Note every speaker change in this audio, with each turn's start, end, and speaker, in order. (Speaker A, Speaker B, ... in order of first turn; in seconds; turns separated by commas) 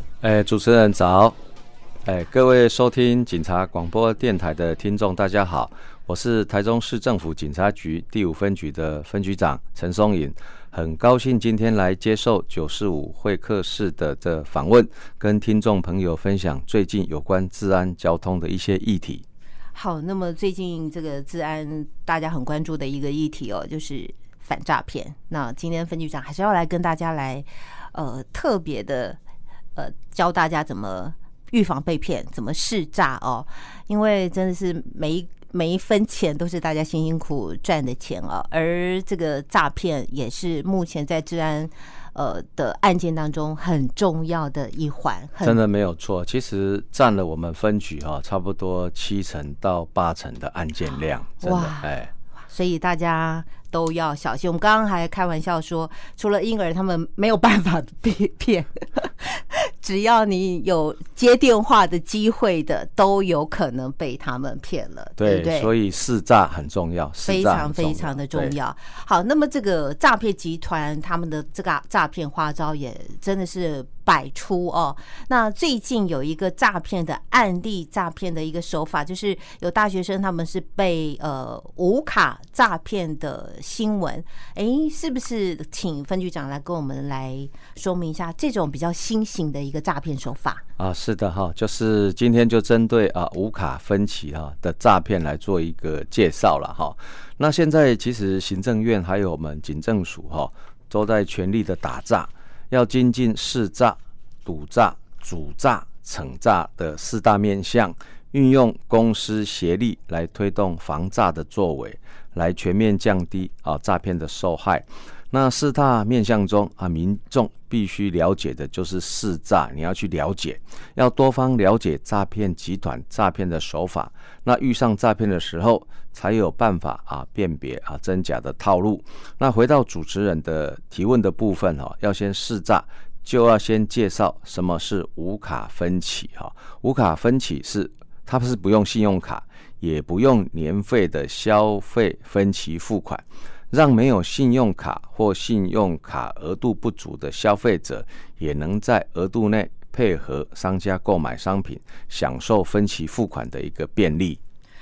Speaker A: 0.2-1.4, Speaker A: 2.1-19.2, Speaker B: 19.7-29.2, Speaker B: 29.8-45.6, Speaker A: 45.4-52.1, Speaker B: 51.4-51.9, Speaker B: 52.5-65.7, Speaker A: 65.2-68.5, Speaker B: 67.2-90.6, Speaker A: 90.8-154.4